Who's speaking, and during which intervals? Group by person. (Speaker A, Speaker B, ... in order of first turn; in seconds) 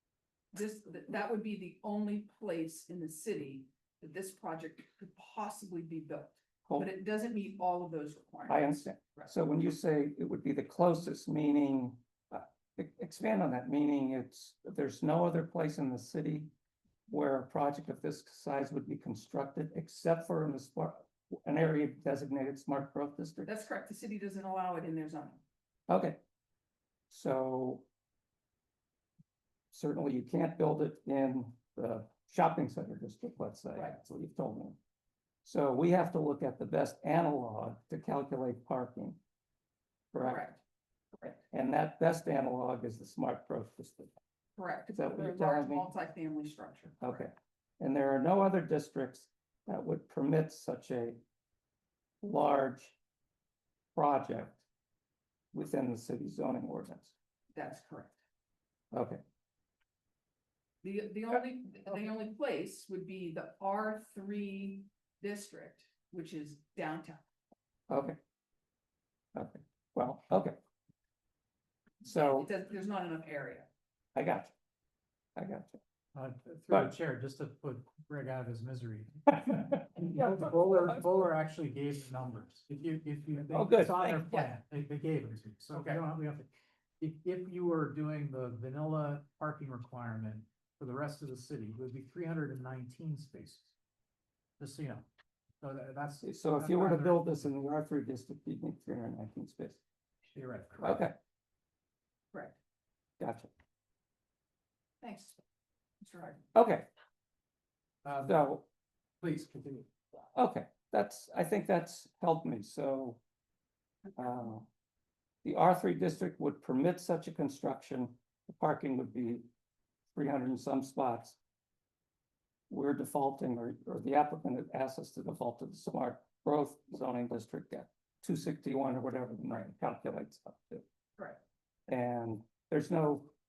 Speaker A: 0.5-9.3, 23.4-25.4, 40.2-40.6, 44.6-47.2, 57.5-58.2, 60.8-67.2, 72.3-73.7, 105.0-105.4, 106.0-106.4
Speaker B: 8.5-16.5, 17.1-23.5, 25.9-26.2, 27.1-27.9, 29.7-34.8, 35.4-39.2, 40.1-40.4, 41.5-44.1, 44.9-45.9, 47.0-51.2, 52.2-53.0, 53.9-54.6, 55.5-57.1, 58.9-59.2, 67.9-68.2, 69.3-70.6, 72.0-72.5, 74.2-74.5, 75.3-75.8, 83.5-84.4, 96.2-99.8, 100.8-101.2, 103.2-103.5, 106.5-106.9, 108.2-108.7, 110.3-113.2, 114.2-114.7, 115.4-119.5, 120.1-121.4, 122.7-130.8, 131.9-133.3
Speaker C: 76.1-86.5, 87.0-93.7, 94.6-95.1, 95.6-97.3, 100.3-101.0, 108.0-108.4, 109.2-109.9